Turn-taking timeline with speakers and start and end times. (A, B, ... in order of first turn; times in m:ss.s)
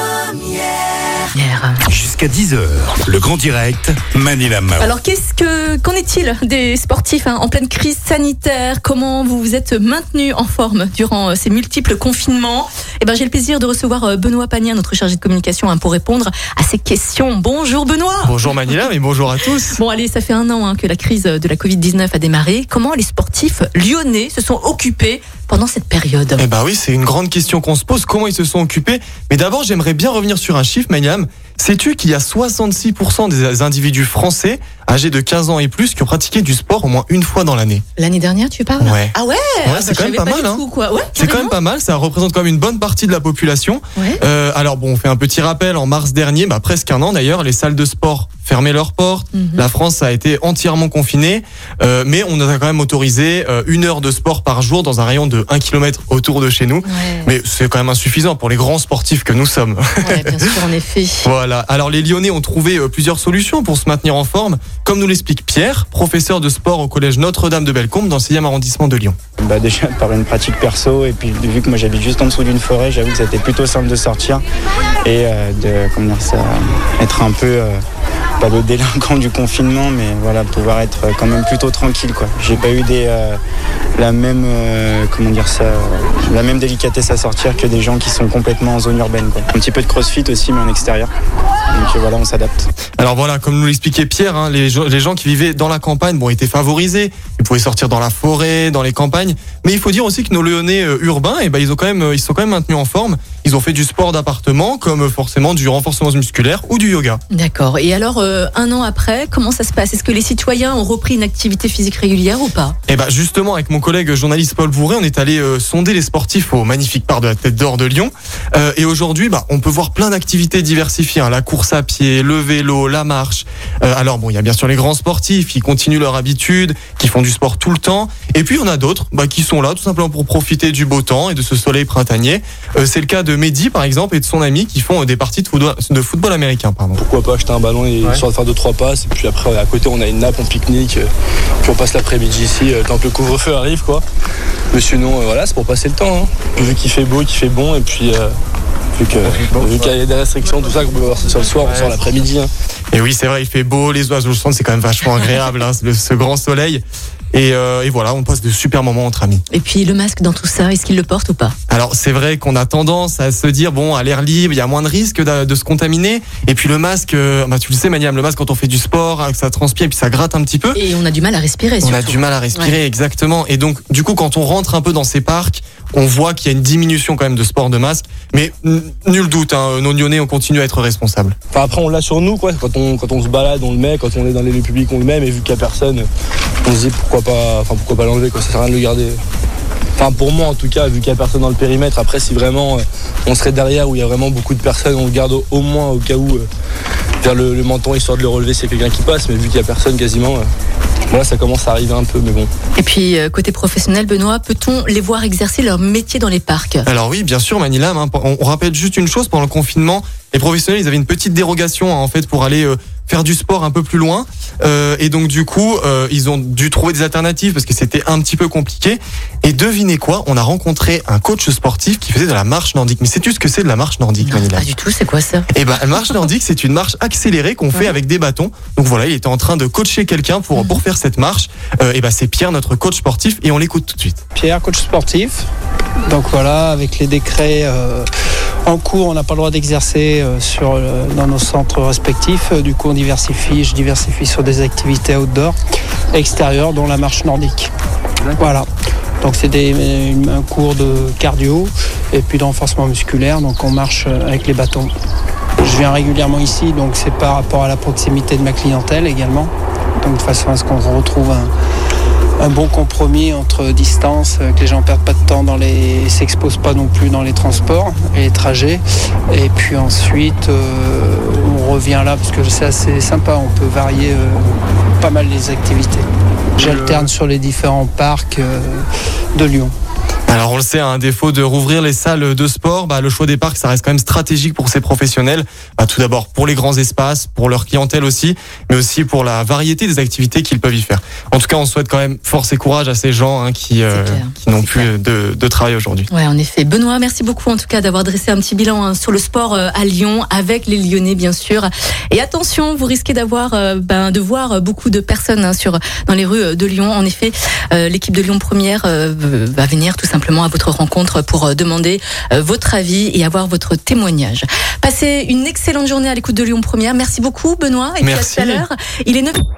0:01.3-0:01.8 A
0:01.9-0:04.9 B
0:04.8-0:18.8 A
0:18.2-0:19.8 C
0:19.7-0:26.4 A
0:26.4-0:37.8 C
0:38.0-0:41.6 A
0:38.8-0:39.1 C
0:39.6-0:40.6 C
0:41.2-1:00.6 C
0:44.0-0:44.2 A
0:49.3-0:49.6 A
0:56.8-0:57.3 A
1:00.0-1:01.3 A
1:01.2-1:09.2 C
1:09.4-1:14.4 D
1:15.0-1:17.8 D
1:18.4-1:23.4 D
1:24.0-1:31.1 D
1:31.7-1:32.7 D
1:33.0-1:47.2 C
1:47.3-1:52.8 A
1:52.9-2:17.0 C
2:17.0-2:21.1 E
2:21.6-2:24.0 E
2:24.7-2:28.3 E
2:29.0-2:32.5 E
2:29.3-2:29.7 C
2:31.7-2:31.9 C
2:32.9-2:39.4 C
2:39.5-2:41.5 A
2:41.7-2:50.8 C
2:50.7-2:52.8 A
2:51.8-3:01.4 C
3:01.5-3:06.1 E
3:06.6-3:09.2 E
3:10.0-3:16.5 E
3:17.2-3:20.5 E
3:21.1-3:22.5 E
3:22.7-3:26.9 A
3:26.8-3:44.7 C
3:44.2-3:45.5 A
3:45.5-3:54.2 C
3:54.3-3:55.4 F
3:56.1-3:58.1 F
3:58.6-4:05.6 F
4:06.1-4:07.7 F
4:08.4-4:08.7 F
4:09.2-4:14.9 F
4:15.6-4:21.5 F
4:22.4-4:34.5 F
4:35.0-4:36.0 F
4:36.6-4:39.7 F
4:36.6-4:37.0 C
4:40.3-4:56.1 C
4:53.9-4:54.9 A
4:56.1-5:19.4 A
5:18.0-5:18.6 C